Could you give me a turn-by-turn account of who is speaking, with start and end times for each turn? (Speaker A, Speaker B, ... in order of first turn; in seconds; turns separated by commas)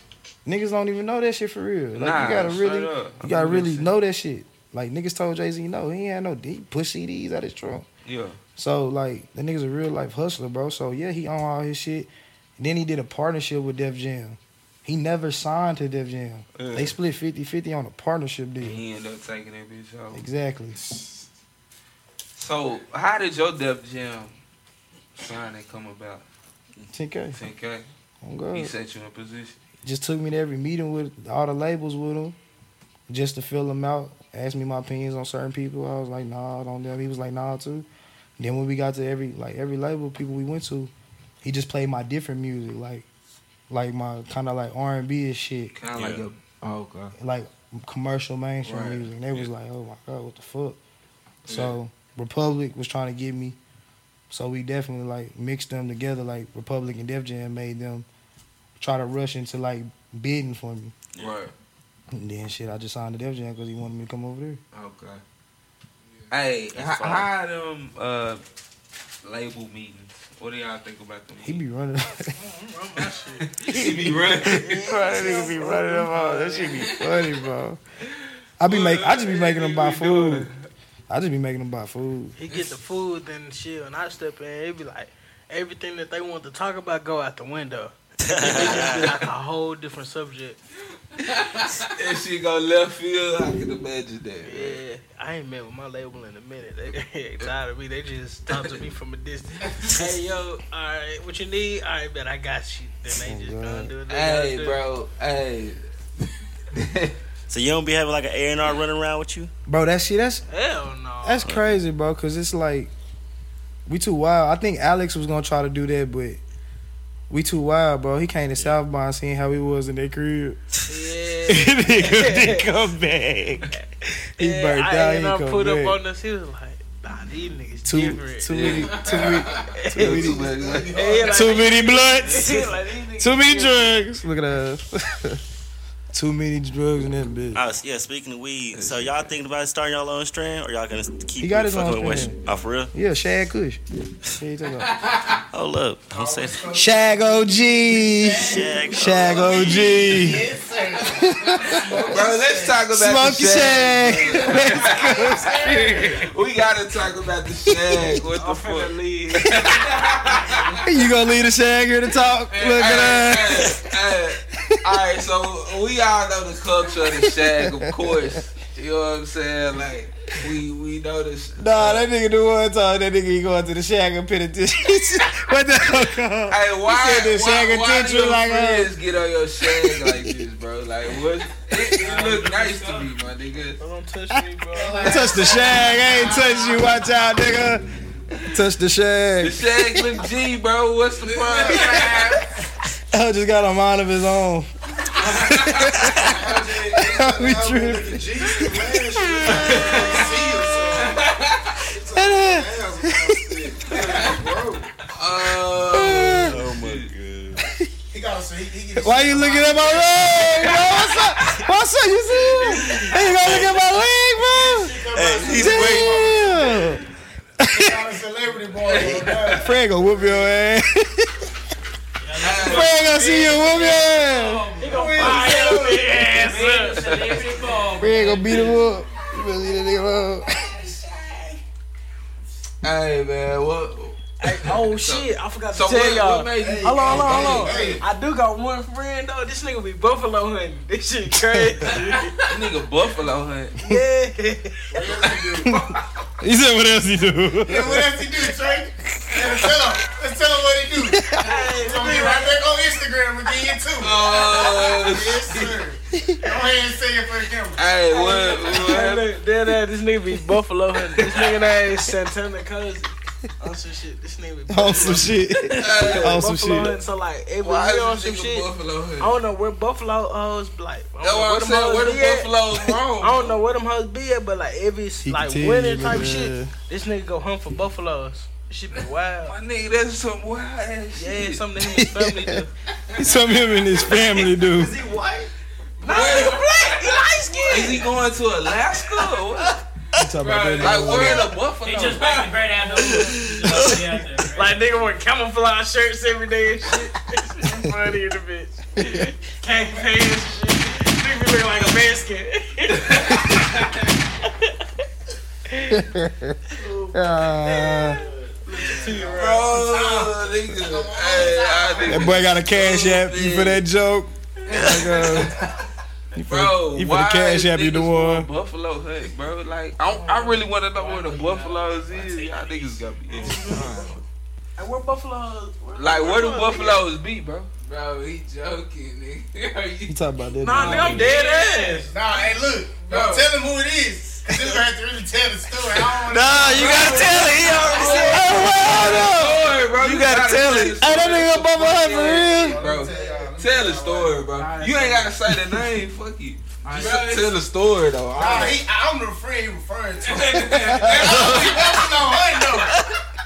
Speaker A: 0.5-7.9, Speaker B: 1.9-3.9, Speaker B: 8.1-8.4, Speaker A: 8.6-18.8, Speaker B: 16.6-17.0, Speaker B: 18.6-20.2, Speaker A: 20.1-20.8, Speaker C: 20.9-21.1, Speaker B: 22.4-24.4, Speaker B: 25.2-26.2, Speaker A: 26.9-27.4, Speaker B: 27.3-27.9, Speaker A: 28.2-28.7, Speaker B: 28.5-29.6, Speaker A: 29.8-32.4, Speaker A: 33.1-37.9, Speaker A: 38.4-40.9, Speaker A: 41.4-43.0, Speaker A: 43.7-45.8, Speaker B: 45.8-47.1, Speaker D: 45.9-46.2, Speaker A: 47.2-50.8, Speaker B: 48.6-49.5, Speaker B: 51.5-51.8, Speaker A: 51.5-53.6, Speaker A: 54.3-58.1, Speaker A: 58.8-60.9, Speaker B: 61.2-61.5, Speaker A: 62.1-64.6, Speaker B: 64.7-65.2, Speaker E: 66.1-66.3, Speaker B: 66.3-68.4, Speaker D: 66.8-67.3, Speaker B: 69.2-71.6, Speaker A: 71.4-72.3, Speaker F: 72.3-73.5, Speaker B: 73.4-74.9, Speaker A: 73.7-77.8, Speaker F: 74.4-76.9, Speaker A: 78.6-80.5, Speaker B: 78.7-80.7, Speaker A: 81.1-82.3, Speaker F: 82.4-90.6, Speaker D: 88.3-89.1, Speaker B: 88.6-88.9, Speaker E: 91.3-91.9, Speaker B: 91.3-94.8, Speaker F: 94.5-104.8, Speaker A: 103.2-103.9, Speaker B: 104.1-105.8, Speaker B: 106.7-107.2, Speaker D: 107.5-109.5, Speaker A: 109.7-110.5, Speaker F: 110.5-111.5, Speaker A: 111.2-112.9, Speaker A: 113.9-116.4, Speaker A: 117.3-120.6, Speaker F: 120.9-122.7, Speaker A: 121.5-123.7, Speaker A: 124.4-126.0, Speaker F: 124.4-128.8, Speaker A: 127.8-130.6, Speaker B: 128.5-129.4, Speaker E: 128.7-129.8, Speaker F: 129.8-130.2, Speaker B: 129.9-131.4, Speaker C: 130.2-131.2, Speaker F: 130.9-134.0, Speaker A: 131.3-135.4, Speaker A: 136.1-137.6, Speaker D: 137.5-142.9, Speaker B: 138.8-139.3, Speaker A: 141.4-142.4, Speaker A: 142.9-144.9, Speaker E: 144.9-145.4, Speaker D: 145.5-146.7, Speaker C: 146.1-152.8, Speaker A: 146.7-150.4, Speaker D: 148.4-149.9, Speaker A: 151.1-152.0, Speaker B: 152.1-160.8, Speaker A: 152.9-156.2, Speaker E: 154.2-154.7, Speaker C: 154.6-156.2, Speaker A: 157.7-158.1, Speaker F: 158.3-160.8, Speaker A: 160.8-163.9, Speaker B: 162.5-172.1, Speaker A: 167.0-168.4, Speaker A: 171.6-178.9, Speaker B: 176.5-183.8, Speaker A: 179.6-180.4, Speaker G: 182.0-183.1, Speaker F: 183.8-185.5, Speaker C: 184.7-187.1, Speaker A: 185.0-187.8, Speaker A: 188.5-190.2, Speaker B: 189.4-192.3, Speaker E: 191.2-191.8, Speaker C: 191.4-192.5, Speaker A: 193.1-196.4, Speaker C: 196.2-201.3, Speaker A: 196.9-199.8, Speaker B: 199.6-200.3, Speaker E: 199.8-200.3, Speaker E: 200.9-201.8, Speaker C: 201.8-204.9, Speaker A: 202.1-203.8, Speaker E: 203.9-204.3, Speaker B: 205.1-207.1, Speaker A: 205.8-206.6, Speaker D: 206.3-207.7, Speaker C: 208.1-210.7, Speaker A: 209.0-217.0, Speaker C: 212.8-213.1, Speaker D: 213.4-213.7, Speaker G: 214.5-215.7, Speaker C: 214.8-217.0, Speaker D: 215.2-216.5, Speaker A: 217.6-218.1, Speaker C: 217.7-219.7, Speaker B: 218.8-219.7, Speaker A: 219.6-221.3, Speaker G: 222.2-228.9, Speaker B: 222.4-223.6, Speaker A: 222.6-224.8, Speaker F: 224.8-227.3, Speaker C: 224.8-226.3, Speaker B: 226.9-227.4, Speaker A: 228.0-230.5, Speaker B: 230.5-231.6, Speaker B: 232.8-238.0, Speaker F: 234.4-242.3, Speaker C: 236.6-238.0, Speaker A: 241.3-241.9, Speaker B: 242.5-243.8, Speaker F: 243.8-245.0, Speaker C: 244.9-245.8, Speaker A: 246.4-248.3, Speaker C: 247.6-257.8, Speaker A: 249.3-249.8, Speaker A: 251.0-251.4, Speaker F: 251.4-252.6, Speaker B: 254.0-255.8, Speaker F: 254.3-254.9, Speaker B: 257.8-259.3, Speaker F: 258.1-268.7, Speaker A: 264.7-267.0, Speaker B: 265.7-266.4, Speaker B: 267.6-269.3, Speaker F: 269.2-272.5, Speaker B: 271.2-273.6, Speaker F: 273.2-279.6, Speaker A: 275.2-276.7, Speaker B: 279.5-281.6, Speaker F: 281.1-282.7, Speaker A: 281.9-282.6, Speaker E: 283.1-283.9, Speaker A: 283.2-285.0, Speaker C: 284.7-285.4, Speaker E: 286.0-288.0, Speaker F: 286.0-288.1, Speaker B: 286.1-286.6, Speaker B: 287.7-289.8, Speaker A: 290.2-291.5, Speaker E: 290.3-292.7, Speaker B: 290.8-292.5, Speaker G: 291.8-294.8, Speaker D: 293.7-294.0, Speaker F: 294.5-303.5, Speaker A: 299.0-299.3, Speaker F: 304.4-304.7, Speaker F: 305.7-306.0, Speaker A: 305.9-306.6, Speaker A: 307.1-308.2, Speaker F: 308.7-309.8, Speaker C: 308.8-312.5, Speaker B: 309.3-313.8, Speaker A: 312.1-315.6, Speaker E: 314.7-315.9, Speaker F: 314.7-315.0, Speaker A: 316.4-318.5, Speaker B: 316.4-324.2, Speaker F: 320.1-320.6, Speaker E: 320.9-324.2, Speaker F: 323.3-324.0, Speaker F: 324.8-327.0, Speaker B: 326.0-327.7, Speaker E: 327.8-331.4, Speaker A: 330.1-331.3, Speaker F: 330.6-332.2, Speaker G: 331.2-332.1, Speaker C: 332.1-338.8, Speaker E: 333.1-333.5, Speaker D: 336.3-338.4, Speaker E: 336.6-339.7, Speaker F: 337.1-339.1, Speaker A: 338.1-339.7, Speaker B: 338.6-348.8, Speaker D: 339.9-341.0, Speaker A: 340.7-342.8, Speaker C: 342.2-344.5, Speaker F: 343.1-343.4, Speaker E: 344.6-345.3, Speaker E: 346.8-347.6, Speaker G: 346.9-347.3, Speaker C: 348.3-353.0, Speaker E: 350.2-351.5, Speaker A: 350.8-351.1, Speaker B: 351.0-352.2